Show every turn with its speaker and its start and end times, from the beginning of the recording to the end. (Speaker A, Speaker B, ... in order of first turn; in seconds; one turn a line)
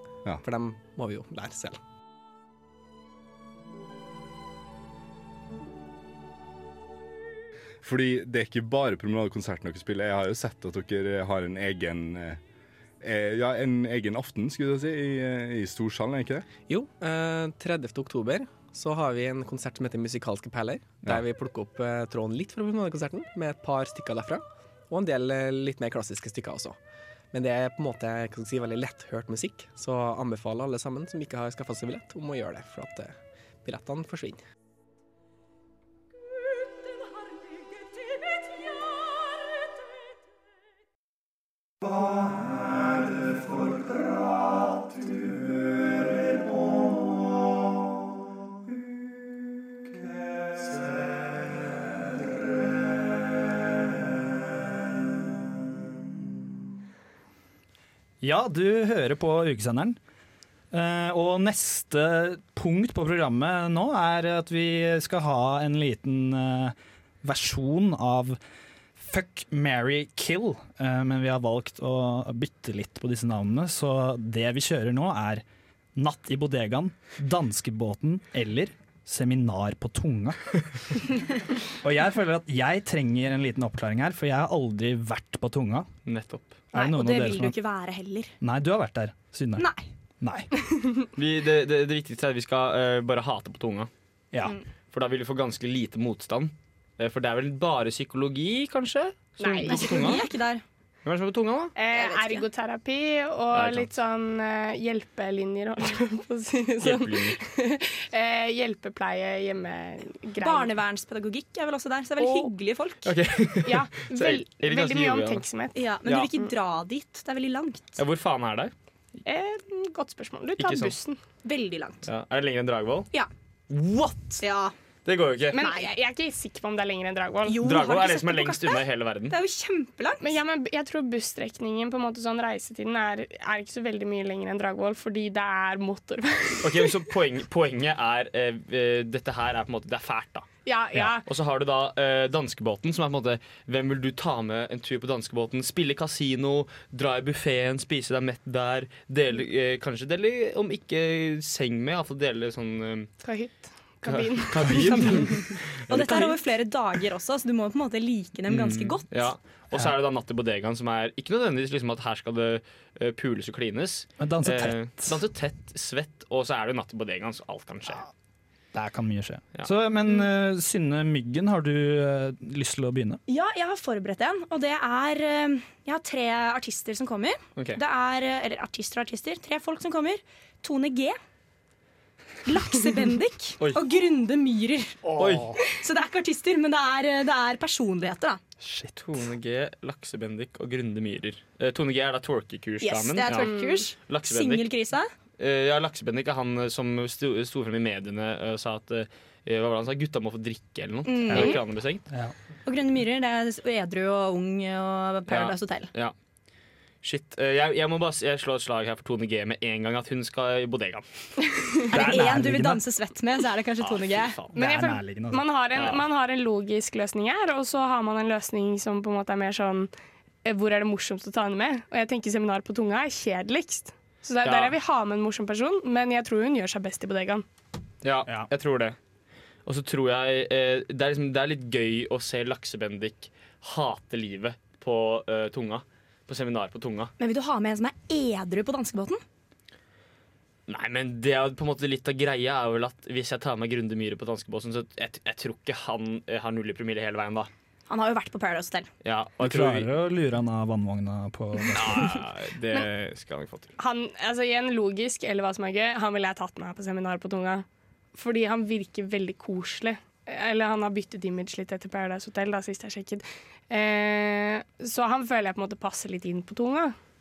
Speaker A: 0.4-1.8
Speaker B: 7.8-12.4
Speaker B: 13.0-16.5
Speaker A: 16.7-26.8
Speaker A: 27.3-34.4
Speaker C: 58.2-60.0
Speaker C: 60.7-68.4
Speaker C: 69.0-75.4
Speaker C: 76.0-80.6
Speaker C: 81.8-85.9
Speaker D: 86.1-86.6
Speaker C: 86.7-87.6
Speaker E: 86.7-88.3
Speaker C: 88.4-89.7
Speaker E: 89.6-89.9
Speaker C: 90.2-90.5
Speaker D: 91.2-93.9
Speaker C: 94.3-94.6
Speaker D: 94.9-100.2
Speaker F: 99.4-100.2
Speaker E: 99.7-100.6
Speaker D: 101.0-101.7
Speaker F: 101.8-110.7
Speaker E: 101.9-102.4
Speaker D: 103.5-103.9
Speaker D: 106.8-107.4
Speaker E: 110.4-113.1
Speaker F: 112.2-112.5
Speaker D: 113.0-115.4
Speaker F: 113.6-116.5
Speaker E: 115.8-118.0
Speaker D: 116.0-116.3
Speaker D: 118.0-118.7
Speaker F: 119.2-121.2
Speaker D: 120.6-121.0
Speaker E: 121.4-122.1
Speaker D: 122.0-123.1
Speaker D: 123.7-124.4
Speaker E: 124.4-124.7
Speaker D: 125.0-125.6
Speaker F: 125.5-127.6
Speaker E: 125.6-125.9
Speaker E: 127.5-130.3
Speaker D: 127.6-129.3
Speaker F: 130.2-136.9
Speaker D: 136.6-153.1
Speaker F: 140.7-141.3
Speaker F: 153.2-156.2
Speaker D: 154.1-156.4
Speaker E: 155.9-159.3
Speaker D: 158.5-168.0
Speaker C: 164.2-165.2
Speaker C: 168.7-173.2
Speaker E: 173.3-181.2
Speaker E: 182.4-185.0
Speaker D: 185.1-185.6
Speaker E: 185.6-188.4
Speaker D: 188.9-194.7
Speaker E: 192.8-195.1
Speaker F: 193.3-193.8
Speaker D: 195.4-202.0
Speaker E: 201.1-201.6
Speaker C: 201.3-201.6
Speaker E: 202.7-205.9
Speaker D: 205.3-206.1
Speaker D: 207.0-211.1
Speaker F: 211.4-211.9
Speaker E: 211.9-214.4
Speaker C: 211.9-212.8
Speaker D: 213.8-214.5
Speaker C: 214.6-215.5
Speaker F: 214.6-219.9
Speaker D: 215.8-216.0
Speaker F: 220.4-227.4
Speaker D: 224.4-224.8
Speaker D: 228.0-229.0
Speaker D: 229.7-237.1
Speaker E: 237.2-239.2
Speaker D: 240.7-247.5
Speaker E: 247.9-248.9
Speaker D: 249.0-249.9
Speaker C: 249.4-252.2
Speaker D: 251.7-253.7
Speaker F: 253.8-266.9